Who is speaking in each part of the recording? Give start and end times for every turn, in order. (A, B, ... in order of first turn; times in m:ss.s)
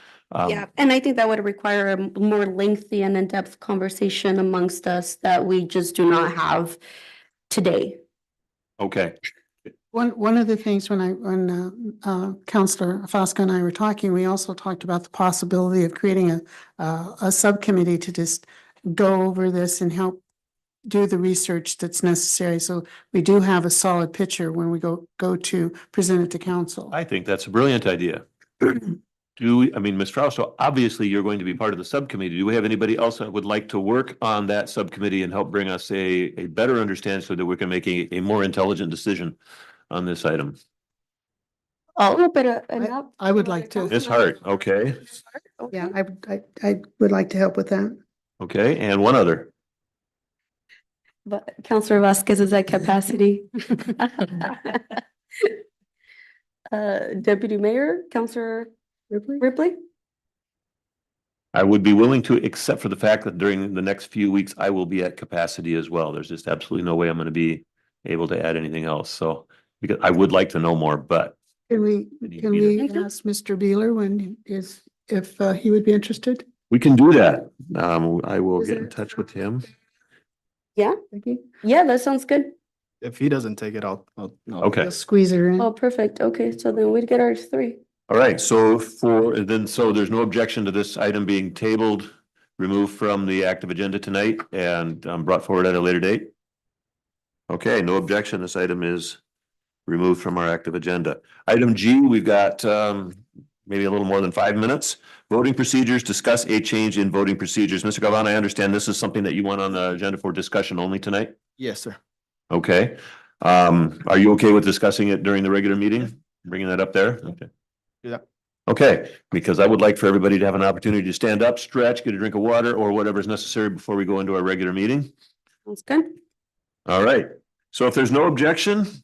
0:00.3-0:00.6 A
0:00.4-0:06.8 B
0:07.5-0:08.0 B
0:08.8-0:09.1 A
0:09.9-0:20.2 C
0:20.9-0:26.9 C
0:26.9-0:39.4 A
0:39.9-0:40.6 A
0:42.0-0:44.3 B
0:42.8-0:44.0 C
0:43.9-0:45.0 A
0:45.6-0:45.9 B
0:45.7-0:48.0 C
0:48.4-0:49.5 A
0:51.2-0:55.6 B
0:56.7-0:58.7 B
0:59.1-0:59.4 C
0:59.4-0:59.8 B
1:01.5-1:11.4 A
1:11.7-1:16.4 C
1:12.2-1:12.8 A
1:12.8-1:13.0 B
1:16.7-1:19.7 A
1:21.1-1:21.5 C
1:21.6-1:22.5 B
1:23.0-1:24.7 D
1:24.6-1:24.9 A
1:24.8-1:25.7 C
1:25.6-1:27.8 B
1:28.1-1:36.3 A
1:37.5-1:39.2 A
1:39.9-1:51.3 A
1:51.6-1:52.0 D
1:52.5-1:57.5 A
1:58.7-2:05.1 A
2:05.7-2:06.1 B
2:06.9-2:08.9 A